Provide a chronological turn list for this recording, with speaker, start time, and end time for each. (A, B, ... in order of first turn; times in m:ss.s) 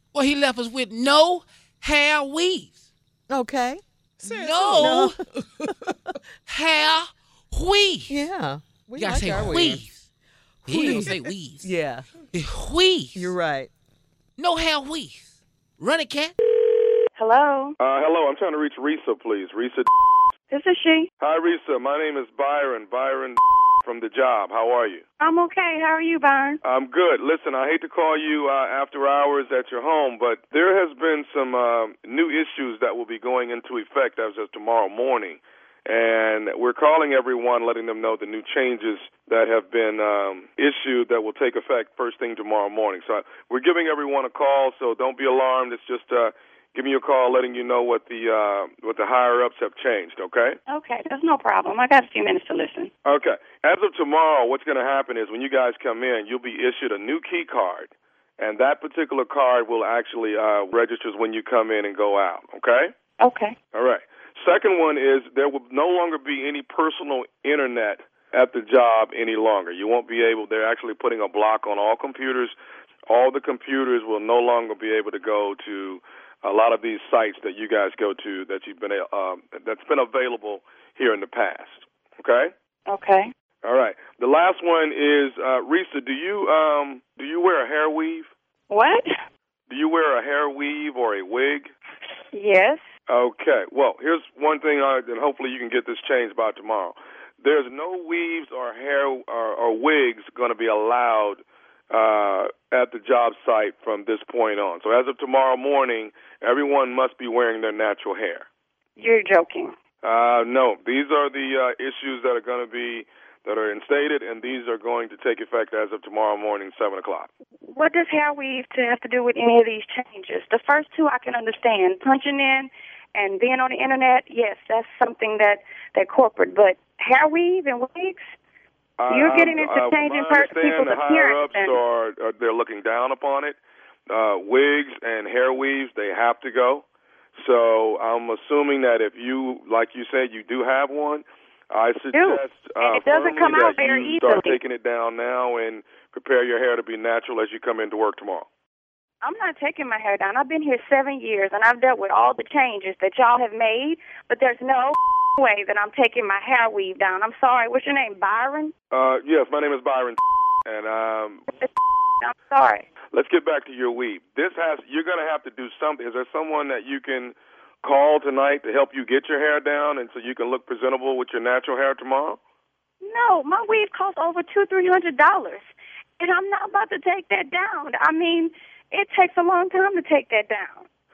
0:00.1-0:02.8 A
0:03.3-0:03.8 B
0:04.2-0:05.2 A
0:04.6-0:05.1 B
0:06.5-0:08.2 A
0:08.1-0:09.8 B
0:09.0-0:10.0 A
0:10.7-0:11.7 A
0:10.7-0:12.1 B
0:12.3-0:13.3 A
0:13.2-0:13.7 B
0:14.4-0:16.4 A
0:17.2-0:17.8 C
0:17.8-0:19.9 D
0:20.5-0:21.1 C
0:21.2-0:25.0 D
0:25.2-0:26.6 C
0:26.6-0:50.6 D
0:50.7-0:52.9 C
0:53.0-1:02.9 D
1:03.2-1:03.6 C
1:03.7-1:12.6 D
1:13.1-1:22.5 D
1:22.9-1:23.3 C
1:23.6-1:28.3 D
1:28.7-1:29.1 C
1:29.7-1:31.7 D
1:32.3-1:32.8 C
1:33.1-1:48.5 D
1:49.0-1:49.7 C
1:50.0-1:57.3 D
1:57.7-2:08.4 C
2:09.0-2:16.8 D
2:09.1-2:11.8 C
2:17.4-2:28.5 D
2:22.1-2:24.6 C
2:29.2-2:38.7 C
2:38.9-2:41.5 D
2:41.5-2:42.9 C
2:43.1-2:52.4 D
2:53.0-2:55.7 C
2:56.2-3:00.8 C